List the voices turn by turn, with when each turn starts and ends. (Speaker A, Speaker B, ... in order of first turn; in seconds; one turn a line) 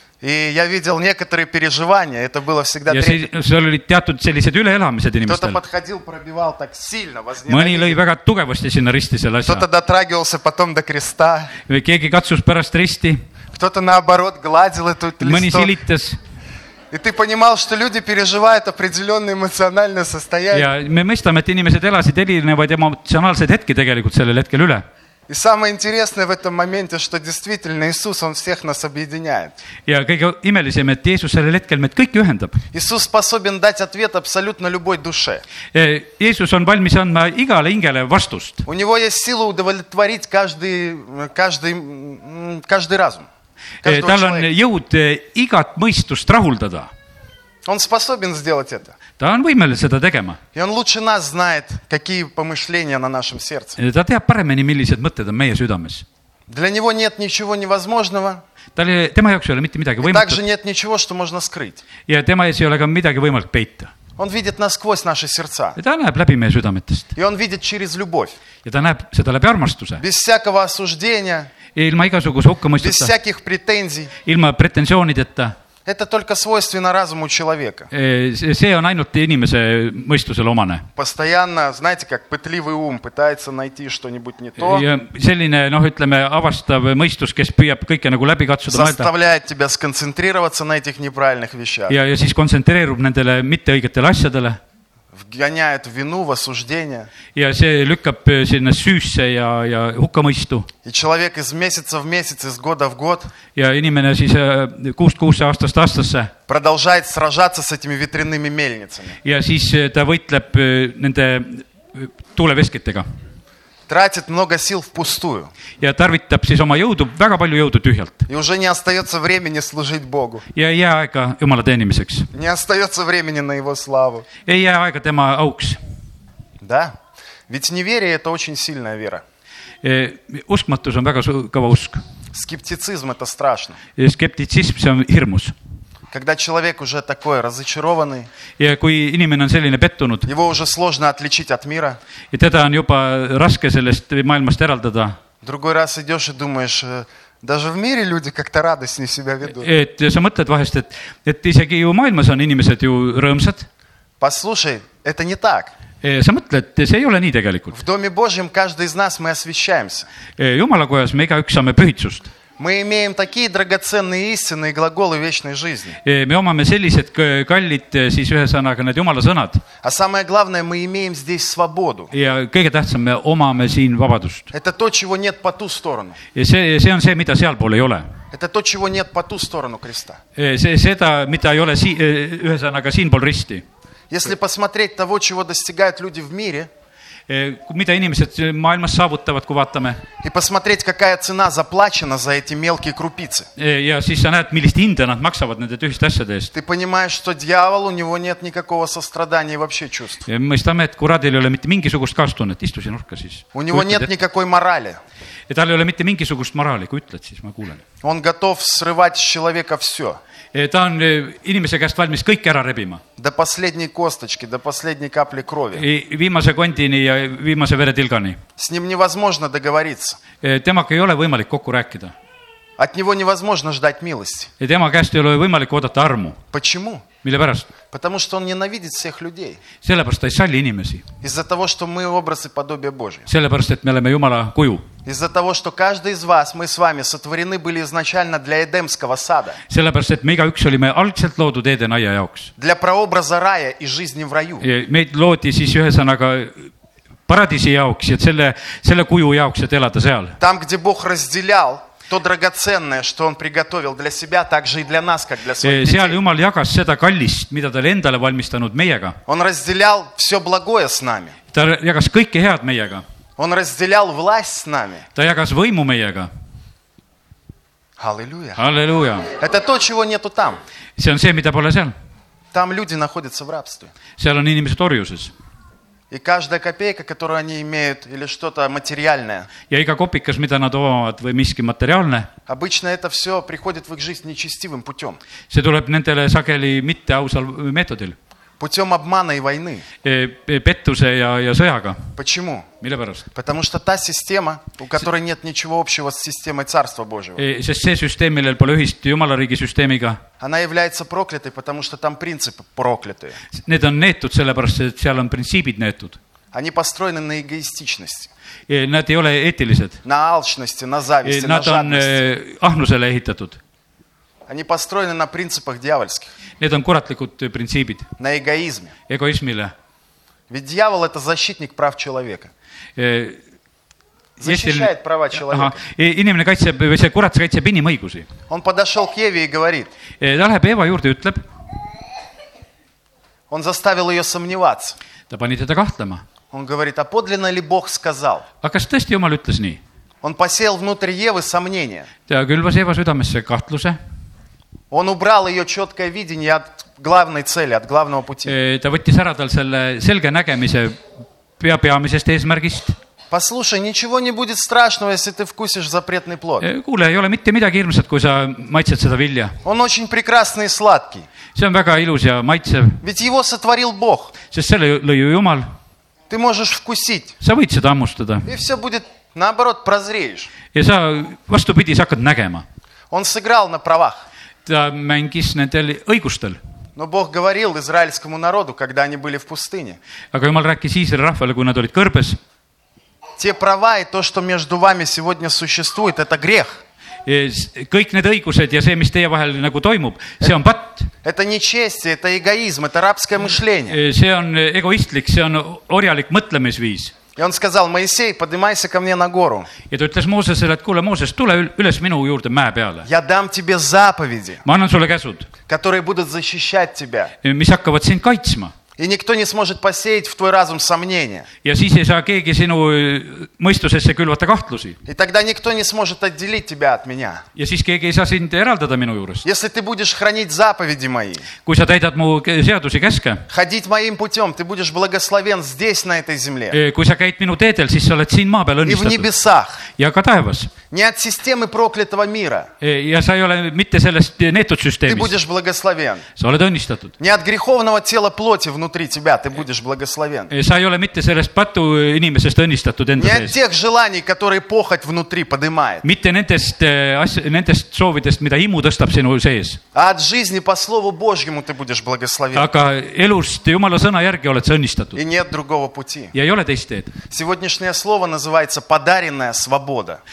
Speaker A: 0.2-3.2
Speaker B: 2.9-5.6
Speaker A: 5.2-8.0
Speaker B: 7.5-9.6
Speaker A: 9.4-11.5
Speaker B: 11.7-13.2
Speaker A: 13.5-15.8
Speaker B: 15.2-16.2
Speaker A: 16.9-20.7
Speaker B: 20.5-24.8
Speaker A: 25.3-29.5
Speaker B: 29.9-32.6
Speaker A: 32.7-35.4
Speaker B: 35.7-38.6
Speaker A: 38.6-43.3
Speaker B: 43.8-46.9
Speaker A: 43.8-44.5
Speaker A: 47.6-49.0
Speaker B: 49.2-50.4
Speaker A: 50.5-53.8
Speaker B: 53.8-56.0
Speaker A: 56.5-58.4
Speaker B: 58.7-60.4
Speaker A: 60.0-61.8
Speaker B: 62.1-63.9
Speaker A: 64.2-65.8
Speaker B: 65.8-67.1
Speaker A: 67.1-68.3
Speaker B: 68.6-70.0
Speaker A: 70.0-71.5
Speaker B: 71.7-73.1
Speaker A: 72.8-74.1
Speaker B: 74.2-75.5
Speaker A: 75.8-77.9
Speaker B: 77.9-80.8
Speaker A: 81.0-84.8
Speaker B: 84.6-89.1
Speaker A: 88.7-92.0
Speaker B: 91.9-94.6
Speaker A: 95.2-97.1
Speaker B: 97.3-100.7
Speaker A: 100.8-103.3
Speaker B: 103.5-106.3
Speaker A: 106.5-109.2
Speaker B: 109.2-113.0
Speaker A: 113.9-115.5
Speaker B: 115.8-118.2
Speaker A: 118.3-120.5
Speaker B: 120.5-122.3
Speaker A: 122.3-124.3
Speaker B: 124.5-125.8
Speaker A: 126.6-127.0
Speaker A: 127.5-129.2
Speaker B: 129.8-132.0
Speaker A: 132.3-133.8
Speaker B: 134.0-135.5
Speaker A: 136.1-138.3
Speaker B: 138.6-140.3
Speaker A: 140.2-142.0
Speaker B: 142.3-145.2
Speaker A: 145.4-149.7
Speaker B: 149.5-153.7
Speaker A: 154.2-155.7
Speaker B: 156.0-157.7
Speaker A: 157.7-160.1
Speaker B: 160.4-162.3
Speaker A: 162.6-166.0
Speaker B: 166.0-169.6
Speaker A: 169.8-172.1
Speaker B: 172.1-174.5
Speaker A: 174.5-176.2
Speaker B: 176.3-178.1
Speaker A: 178.3-180.2
Speaker B: 180.3-183.6
Speaker A: 184.1-186.7
Speaker B: 187.3-190.0
Speaker A: 190.2-193.5
Speaker B: 193.6-196.5
Speaker A: 196.5-200.2
Speaker B: 200.2-204.1
Speaker A: 203.5-205.0
Speaker B: 205.5-207.8
Speaker A: 208.0-210.2
Speaker B: 210.5-213.0
Speaker A: 213.2-215.8
Speaker B: 215.7-218.4
Speaker A: 218.6-220.2
Speaker B: 220.4-222.1
Speaker A: 222.8-224.5
Speaker B: 224.6-226.4
Speaker A: 226.5-227.1
Speaker B: 227.2-227.7
Speaker A: 227.9-229.6
Speaker B: 229.8-231.0
Speaker A: 231.2-233.3
Speaker B: 233.3-234.8
Speaker A: 235.0-239.6
Speaker B: 239.7-242.5
Speaker A: 242.6-244.6
Speaker B: 244.6-246.7
Speaker B: 247.3-250.3
Speaker A: 250.4-256.2
Speaker B: 255.6-259.2
Speaker A: 259.3-261.4
Speaker B: 261.5-263.0
Speaker A: 263.4-265.1
Speaker B: 265.1-266.3
Speaker A: 268.0-268.6
Speaker B: 268.6-269.3
Speaker A: 269.4-270.6
Speaker B: 271.0-271.9
Speaker A: 272.5-273.9
Speaker B: 274.2-275.3
Speaker A: 276.1-279.5
Speaker B: 279.7-282.3
Speaker A: 282.5-285.2
Speaker B: 285.5-288.1
Speaker A: 288.6-289.8
Speaker B: 290.0-292.1
Speaker A: 292.2-292.7
Speaker B: 292.8-293.3
Speaker A: 293.3-297.4
Speaker B: 297.4-300.2
Speaker A: 300.4-303.4
Speaker B: 303.5-306.2
Speaker A: 306.5-308.3
Speaker B: 308.7-310.0
Speaker A: 310.0-312.1
Speaker B: 311.2-313.6
Speaker A: 314.5-316.3
Speaker B: 316.6-318.1
Speaker A: 318.2-318.9
Speaker B: 319.1-319.7
Speaker A: 320.5-322.5
Speaker B: 322.9-323.4
Speaker A: 324.4-325.8
Speaker B: 324.4-328.3
Speaker A: 328.5-329.9
Speaker B: 330.2-331.4
Speaker A: 333.5-335.0
Speaker B: 335.3-336.2
Speaker A: 336.5-338.4
Speaker B: 338.6-339.8
Speaker A: 340.2-342.1
Speaker B: 342.3-344.0
Speaker A: 344.9-348.6
Speaker B: 348.4-351.0
Speaker B: 351.6-352.9
Speaker A: 353.3-356.7
Speaker B: 356.6-359.6
Speaker A: 359.6-361.3
Speaker B: 361.5-363.0
Speaker A: 363.0-364.3
Speaker B: 364.5-365.7
Speaker A: 366.3-367.4
Speaker B: 367.4-368.5
Speaker A: 368.4-370.5
Speaker B: 370.7-372.6
Speaker A: 373.1-374.2
Speaker B: 374.6-376.6
Speaker A: 377.0-380.0
Speaker B: 380.3-382.4
Speaker A: 383.4-386.8
Speaker B: 387.2-391.1
Speaker A: 391.2-394.0
Speaker B: 393.9-397.1
Speaker A: 397.4-399.7
Speaker B: 399.9-403.1
Speaker A: 403.0-404.6
Speaker B: 404.6-405.5
Speaker A: 405.7-407.3
Speaker B: 407.4-408.7
Speaker A: 409.0-411.5
Speaker B: 411.6-415.0
Speaker A: 415.1-417.4
Speaker B: 417.6-419.4
Speaker A: 419.4-421.5
Speaker B: 421.6-423.4
Speaker A: 423.5-426.8
Speaker B: 426.7-429.3
Speaker A: 428.8-429.8
Speaker B: 429.9-430.7
Speaker A: 430.9-432.7
Speaker B: 432.8-435.3
Speaker A: 435.1-436.2
Speaker B: 436.4-437.1
Speaker A: 437.2-440.5
Speaker B: 440.5-443.5
Speaker A: 443.2-446.0
Speaker B: 446.0-449.8
Speaker A: 449.9-452.7
Speaker B: 452.5-455.2
Speaker A: 455.1-456.3
Speaker B: 456.3-457.1
Speaker A: 457.3-460.2